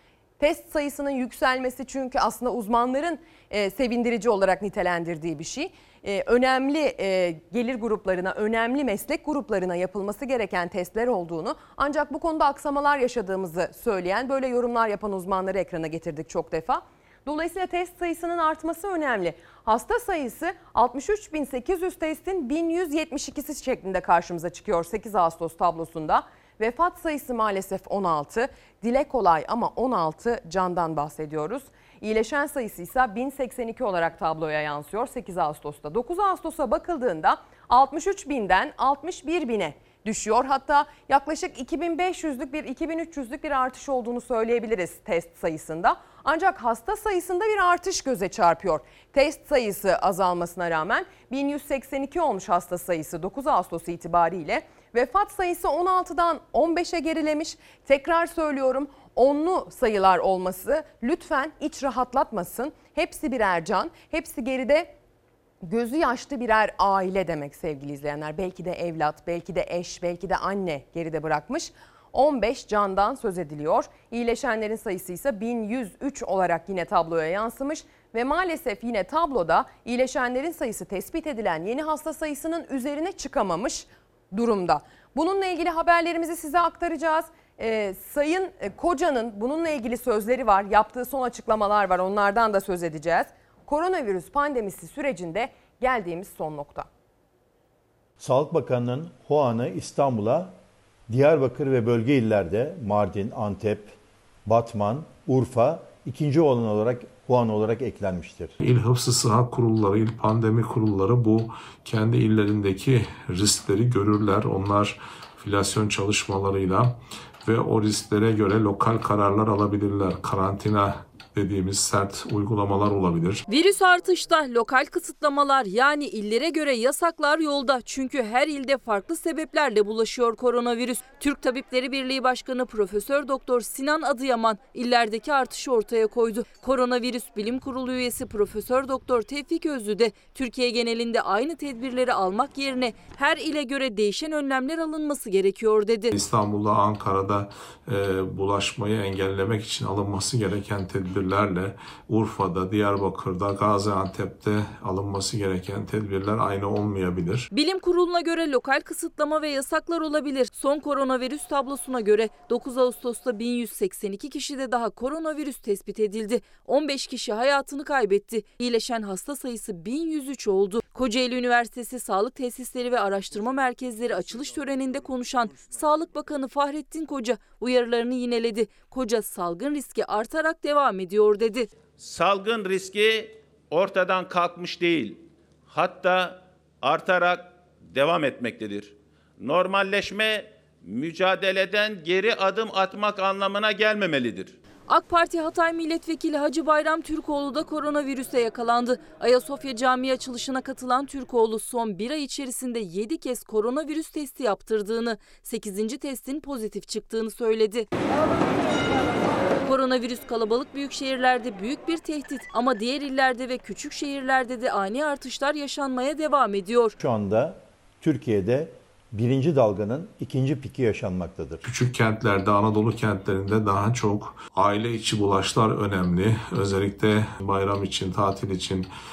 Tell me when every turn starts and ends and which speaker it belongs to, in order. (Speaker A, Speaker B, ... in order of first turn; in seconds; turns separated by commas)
Speaker A: 0.4-64.9, Speaker A: 65.6-96.9, Speaker B: 98.2-100.5, Speaker B: 101.1-108.5, Speaker C: 108.6-123.4, Speaker D: 123.5-146.1, Speaker C: 146.1-157.5, Speaker D: 157.5-181.7, Speaker E: 182.0-194.5, Speaker D: 194.9-207.9, Speaker D: 209.6-216.9, Speaker B: 217.0-221.6, Speaker C: 221.6-228.9